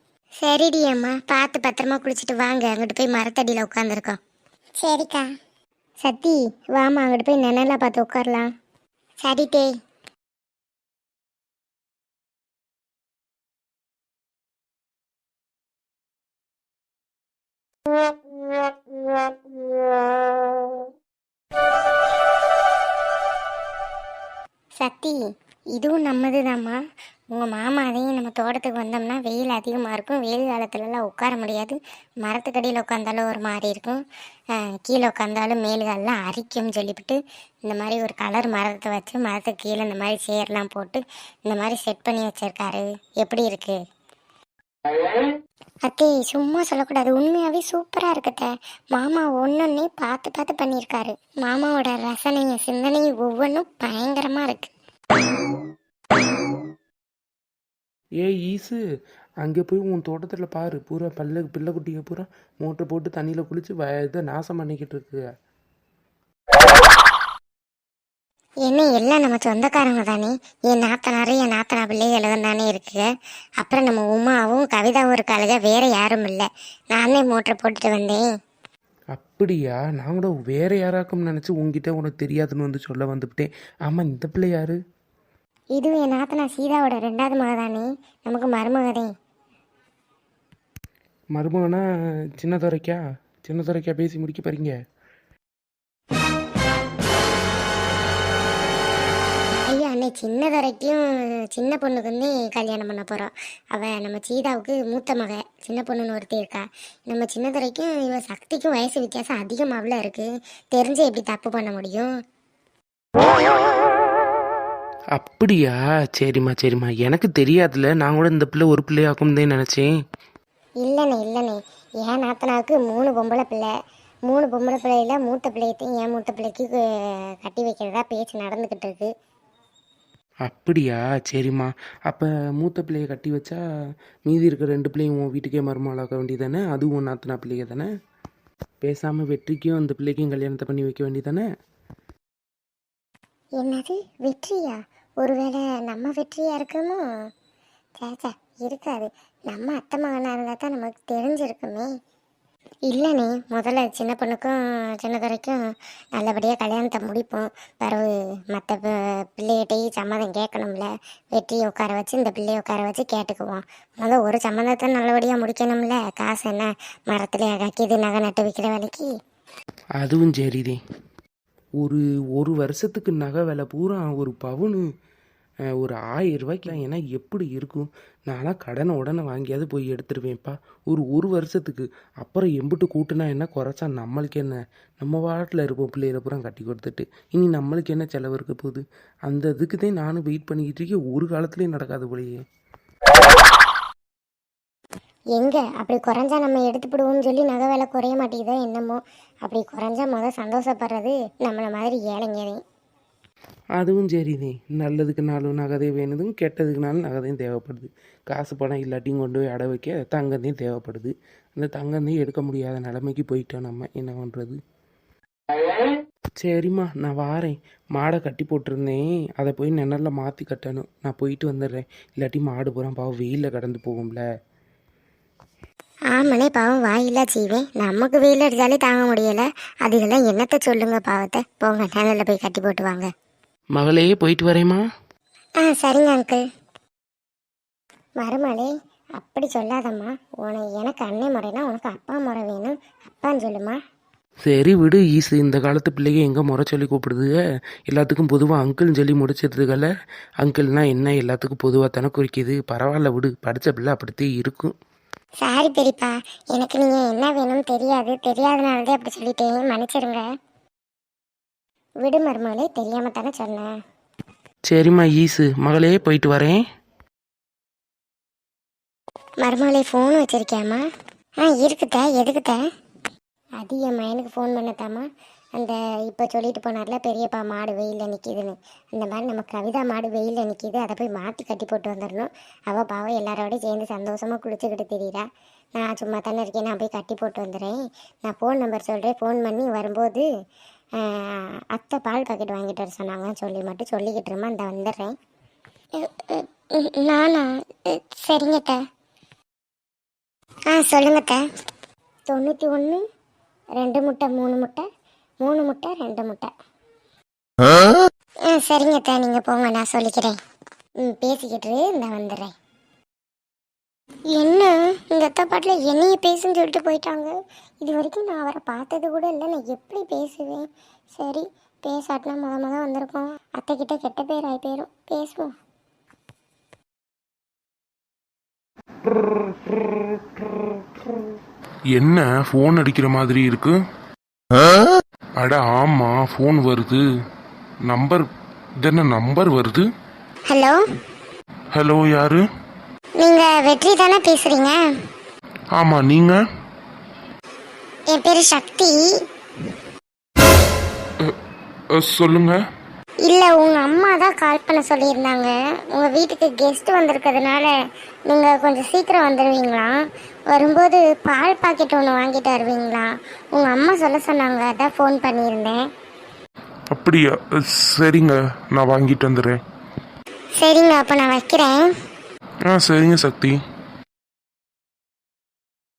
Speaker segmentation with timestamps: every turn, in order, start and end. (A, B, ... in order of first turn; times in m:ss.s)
0:00.4-0:04.2 A
0:04.8-0:05.3 A
0:06.0-0:08.5 A
0:09.2-0:09.7 A
0:24.8-0:25.2 A
0:25.7-0:26.8 A
0:27.3-0:34.0 A
0:34.5-0:43.8 A
0:45.8-0:54.7 A
0:58.2-0:58.8 B
0:59.4-1:05.3 B
1:08.7-1:13.1 A
1:13.6-1:18.2 A
1:19.1-1:24.8 B
1:25.8-1:29.1 A
1:31.4-1:34.8 B
1:39.7-1:52.1 A
1:55.2-1:59.9 B
2:00.8-2:03.7 A
2:04.3-2:09.1 A
2:10.5-2:13.6 B
2:14.3-2:17.9 B
2:18.8-2:21.4 B
2:23.6-2:27.1 A
2:28.0-2:31.9 A
2:32.9-2:35.6 A
2:36.2-2:49.1 A
2:50.0-2:50.8 B
2:51.8-2:54.8 B
2:55.8-3:12.4 B
3:15.4-3:22.6 A
3:23.8-3:34.6 B
3:36.4-3:44.2 B
3:46.1-3:53.1 A
3:53.8-3:54.8 B
3:55.6-3:56.4 A
3:58.2-4:03.8 A
4:04.4-4:14.7 B
4:15.4-4:20.2 A
4:22.0-4:23.7 A
4:24.7-4:26.6 B
4:29.4-4:30.8 A
4:31.4-4:32.6 A
4:33.6-4:50.3 A
4:51.0-4:55.1 A
4:56.0-4:58.8 A
5:00.7-5:01.4 A
5:02.3-5:03.0 A
5:03.8-5:04.9 A
5:05.4-5:06.5 A
5:08.5-5:10.4 A
5:11.0-5:12.5 A
5:14.3-5:25.5 A
5:32.0-5:33.8 C
5:35.4-5:37.0 C
5:37.9-5:38.3 C
5:38.8-5:39.9 C
5:40.5-5:40.8 A
5:41.7-5:42.4 C
5:43.2-5:44.8 A
5:45.8-5:46.4 C
5:48.1-5:49.0 A
5:51.9-5:52.6 C
5:53.2-5:57.7 A
5:58.3-5:59.9 A
6:00.5-6:05.8 A
6:06.9-6:09.6 C
6:10.6-6:11.9 A
6:12.7-6:13.6 C